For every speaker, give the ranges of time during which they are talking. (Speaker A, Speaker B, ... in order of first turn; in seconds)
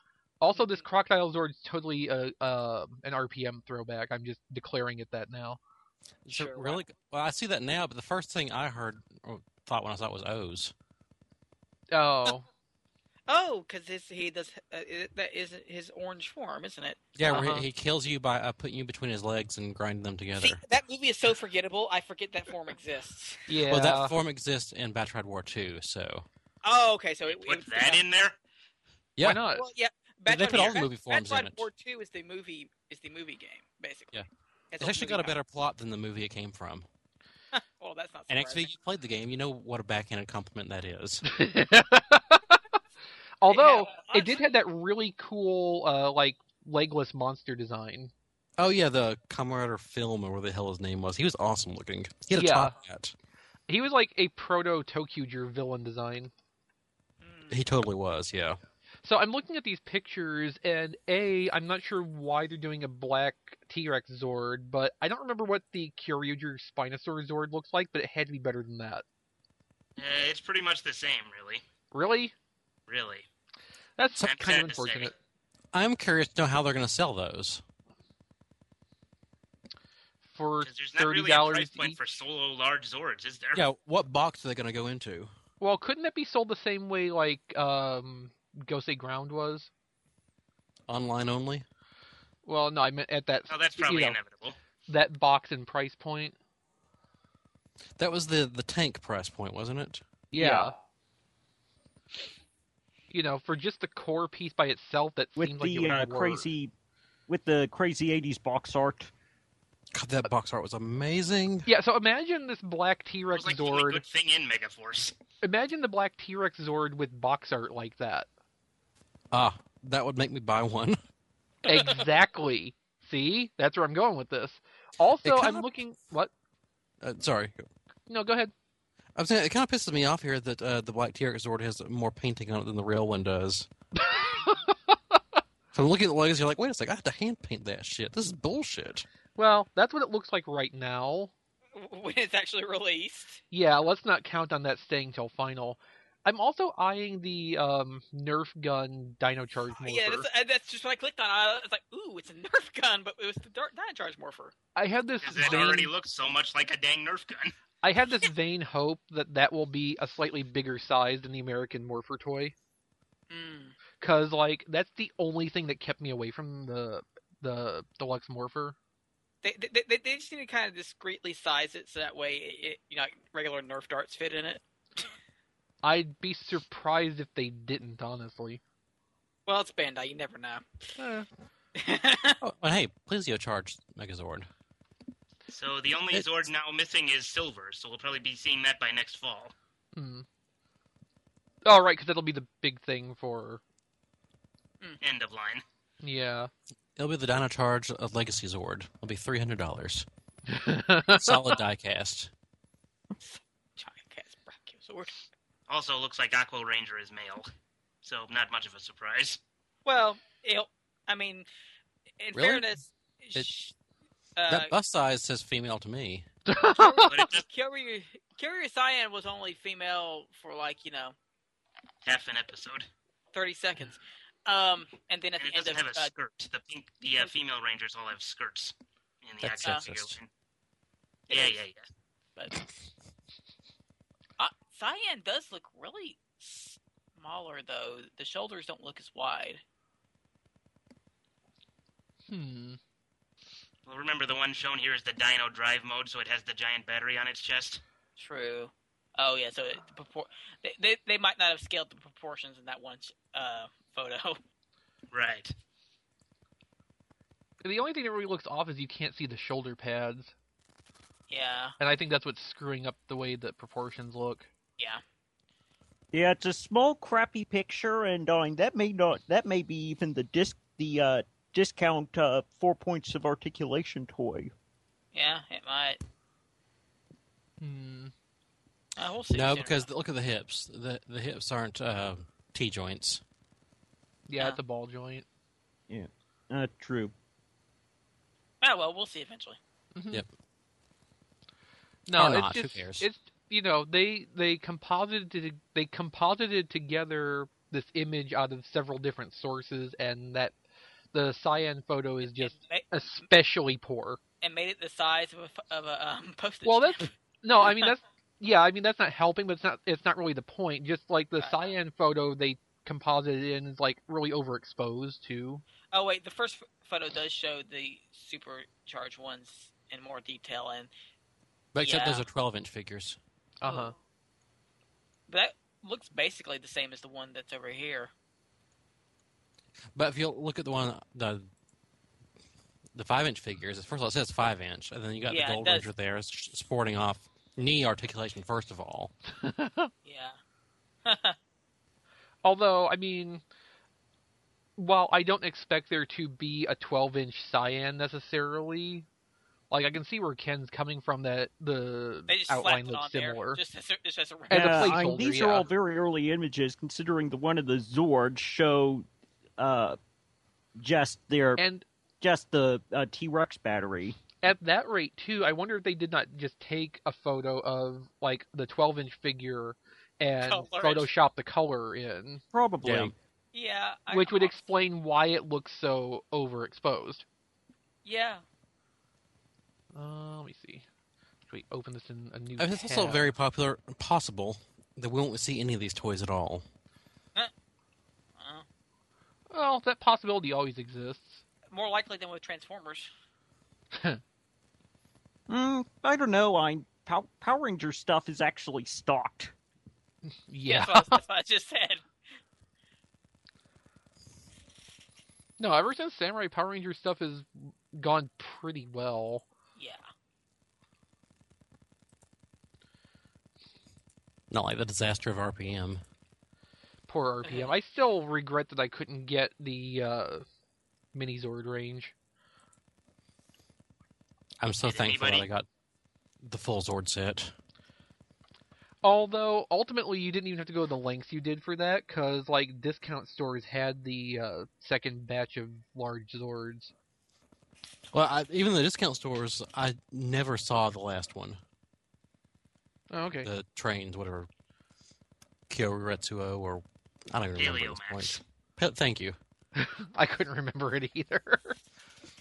Speaker A: 0.4-5.6, 11.9-12.4, 17.2-17.7, 23.5-24.1, 29.2-29.6, 41.2-42.6, 43.4-48.1, 52.3-52.7, 53.7-56.3, 59.0-69.0, 71.9-72.3, 74.0-75.1, 80.2-82.2, 85.6-89.7, 92.5-94.2, 94.9-96.3, 100.3-100.7, 103.1-106.5, 111.7-114.0, 115.4-118.3, 121.6-126.3, 128.1-128.5, 134.1-134.5, 139.3-141.3, 143.5-150.3, 154.7-155.9, 157.8-162.5, 164.0-168.8, 175.8-178.6, 181.0-181.3, 189.9-190.2, 191.6-193.6, 196.0-196.5, 200.5-201.6, 216.5-217.3, 242.3-242.8, 257.6-260.3, 261.8-264.5, 277.6-278.1, 284.3-285.2, 289.9-290.2, 292.1-300.5, 301.1-304.2, 306.6-315.6, 323.6-323.9, 339.4-339.9, 342.4-343.4, 344.8-349.1, 349.7-353.6, 354.5-355.7, 361.6-361.9, 364.4-372.4, 374.1-377.2, 379.9-380.9, 381.5-383.3, 389.5-391.4, 393.9-394.2, 400.5-401.2, 405.6-409.4, 417.1-420.4, 421.1-422.1, 429.0-436.9, 443.1-443.5, 449.7-451.8
Speaker B: 0.5-0.8, 6.3-6.8, 13.3-17.0, 20.4-23.5, 26.6-28.0, 29.5-34.2, 34.7-35.4, 37.5-38.7, 43.5-44.5, 57.2-57.6, 121.7-122.0, 141.7-143.4, 149.8-154.5, 155.3-155.8, 163.3-163.8, 169.4-175.1, 179.4-180.9, 181.7-182.4, 203.2-205.2, 209.8-211.5, 212.2-213.7, 214.3-214.7, 216.7-221.1, 223.3-226.1, 231.3-231.6, 232.4-232.6, 234.4-239.6, 248.2-254.4, 261.3-261.8, 275.1-276.0, 279.0-279.9, 288.6-289.6, 302.2-303.2, 304.4-307.9, 311.4-311.7, 315.9-320.9, 321.8-322.2, 323.6-323.9, 325.3-328.1, 335.3-335.9, 340.0-340.4, 341.0-341.4, 352.3-355.0, 370.4-371.1, 373.5-374.6, 378.0-378.4, 388.4-388.6, 391.7-393.1, 400.6-402.0, 409.8-410.0, 417.4-417.8
Speaker C: 6.2-10.7, 17.1-20.6, 23.7-26.2, 29.1-29.4, 30.3-31.7, 34.1-36.9, 38.3-41.3, 48.6-53.1, 57.5-58.6, 75.7-77.6, 83.5-85.3, 90.9-91.6, 98.0-100.7, 109.9-111.7, 119.3-121.0, 125.2-125.7, 127.0-127.7, 129.2-133.7, 135.7-139.1, 182.4-184.5, 197.0-200.1, 201.1-202.3, 212.3-212.7, 214.5-216.3, 229.4-230.1, 279.3-283.2, 292.1-293.1, 321.7-323.2, 329.9-331.5, 332.9-339.1, 372.8-373.1, 382.6-386.6, 414.5-416.0, 424.6-425.6, 426.4-427.5, 438.1-441.6, 443.4-444.5, 445.7-449.4
Speaker D: 27.3-28.4, 70.0-71.6, 72.9-73.2, 74.2-75.1, 80.6-83.6, 93.5-94.5, 113.3-115.1, 155.2-157.5, 185.5-189.5, 195.0-195.6, 205.7-207.5, 208.0-209.4, 217.1-217.4, 222.0-222.9, 225.4-230.3, 231.3-231.8, 243.8-247.8, 255.1-255.5, 424.8-425.5, 447.6-448.4
Speaker E: 105.4-106.7, 107.3-109.1, 266.1-274.5, 285.9-287.1, 354.5-359.1, 359.6-360.0, 360.8-361.6, 362.2-364.2, 372.5-373.1, 395.5-399.5